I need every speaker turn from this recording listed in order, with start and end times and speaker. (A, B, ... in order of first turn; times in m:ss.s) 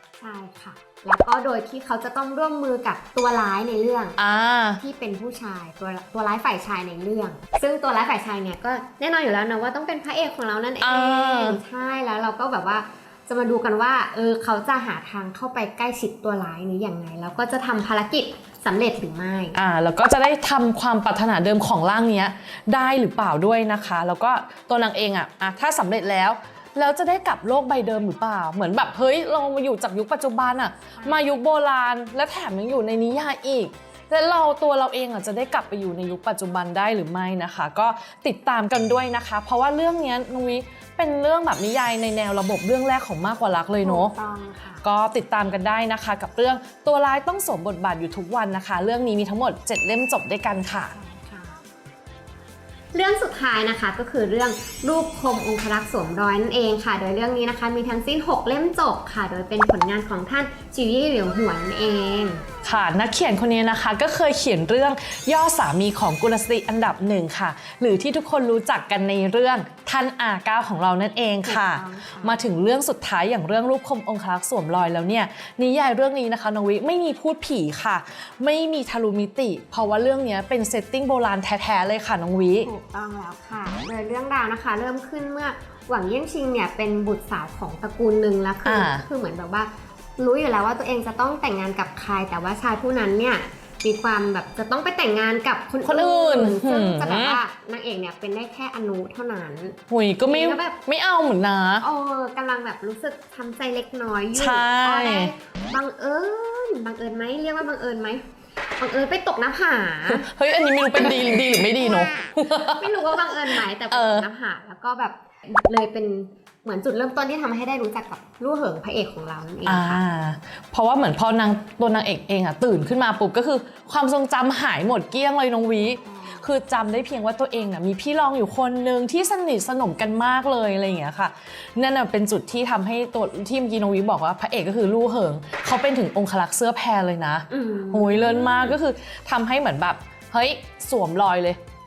0:00.2-0:04.2 A
0:04.2-0:04.8 B
0:04.8-0:19.6 A
0:10.8-0:11.6 B
0:19.5-0:44.1 B
0:31.0-0:31.2 A
0:43.8-0:44.8 A
0:44.8-0:50.9 B
0:50.8-0:51.6 A
0:52.9-1:02.4 A
1:02.6-1:22.7 B
1:11.4-1:12.4 A
1:22.6-1:40.8 A
1:28.6-1:29.0 B
1:35.8-1:37.4 B
1:39.9-1:41.8 B
1:41.8-1:48.2 A
1:44.3-1:45.3 B
1:48.8-1:50.3 A
1:50.1-1:54.3 B
1:51.0-2:00.0 A
1:59.6-2:21.6 B
2:06.0-2:06.4 A
2:17.5-2:18.8 A